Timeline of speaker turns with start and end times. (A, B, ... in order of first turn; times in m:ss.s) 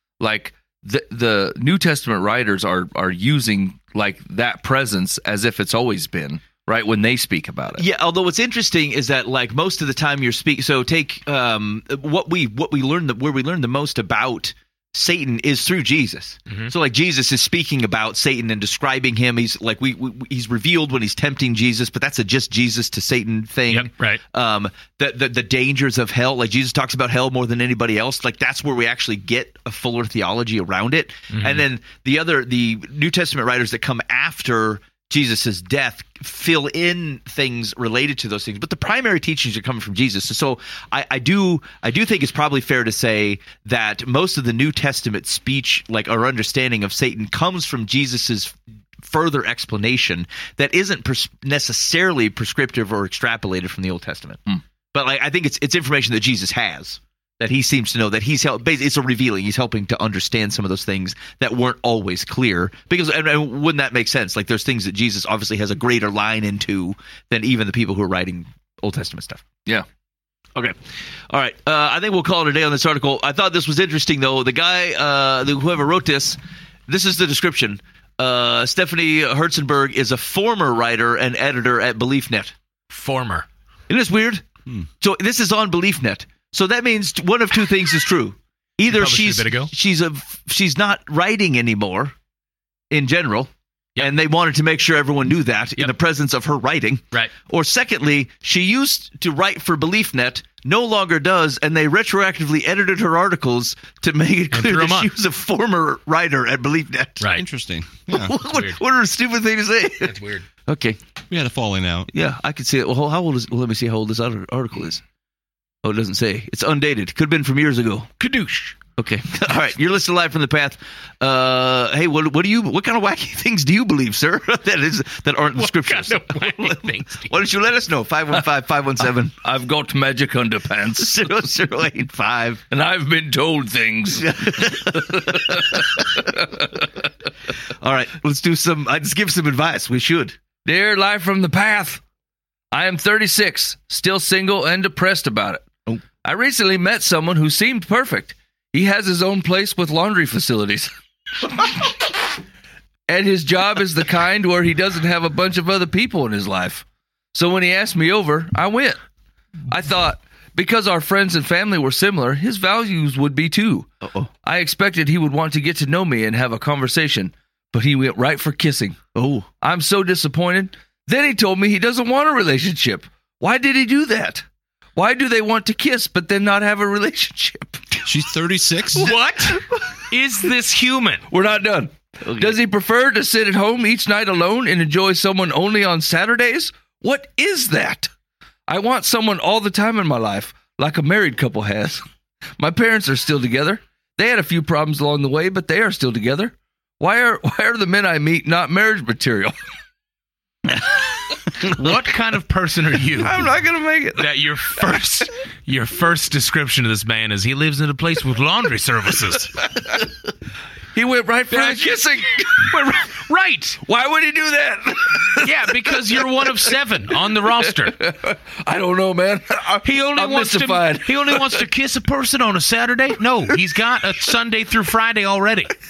0:00.2-0:07.8 A
0:07.8-1:09.5 B
0:23.7-0:24.2 C
0:31.3-0:31.6 C
1:11.3-1:22.5 B
1:22.9-1:23.5 C
1:23.9-1:24.4 B
1:25.0-1:32.1 B
1:28.9-1:29.7 C
1:32.9-1:47.3 B
1:44.5-1:45.1 C
1:47.3-1:48.3 D
1:48.1-1:51.0 B
1:48.5-1:48.8 C
1:50.0-1:50.4 C
1:51.3-1:52.1 D
1:52.1-1:55.0 B
1:55.8-1:58.1 B
1:58.2-1:58.8 C
1:59.0-2:09.4 B
2:05.6-2:07.4 C
2:09.4-2:11.2 A
2:11.0-2:12.6 B
2:12.7-2:16.9 A
2:14.2-2:16.2 B
2:17.8-2:20.4 B
2:20.6-2:22.0 A
2:22.7-2:25.7 A
2:26.2-2:30.9 A
2:33.1-2:39.0 A
2:39.7-2:43.9 A
2:44.0-2:44.3 B
2:44.4-2:49.0 A
2:49.2-2:49.5 B
2:49.6-2:54.4 A
2:55.0-2:58.0 A
2:58.0-2:59.1 D
2:59.0-3:01.3 C
2:59.1-2:59.8 B
3:01.3-3:08.1 A
3:02.3-3:02.5 B
3:08.7-3:12.0 A
3:12.6-3:19.5 A
3:21.6-3:23.5 C
3:23.2-3:24.2 B
3:24.2-3:29.7 C
3:31.0-3:32.7 A
3:31.5-3:33.8 C
3:33.8-3:35.7 A
3:35.4-3:38.0 C
3:37.6-3:41.6 A
3:39.8-3:45.7 C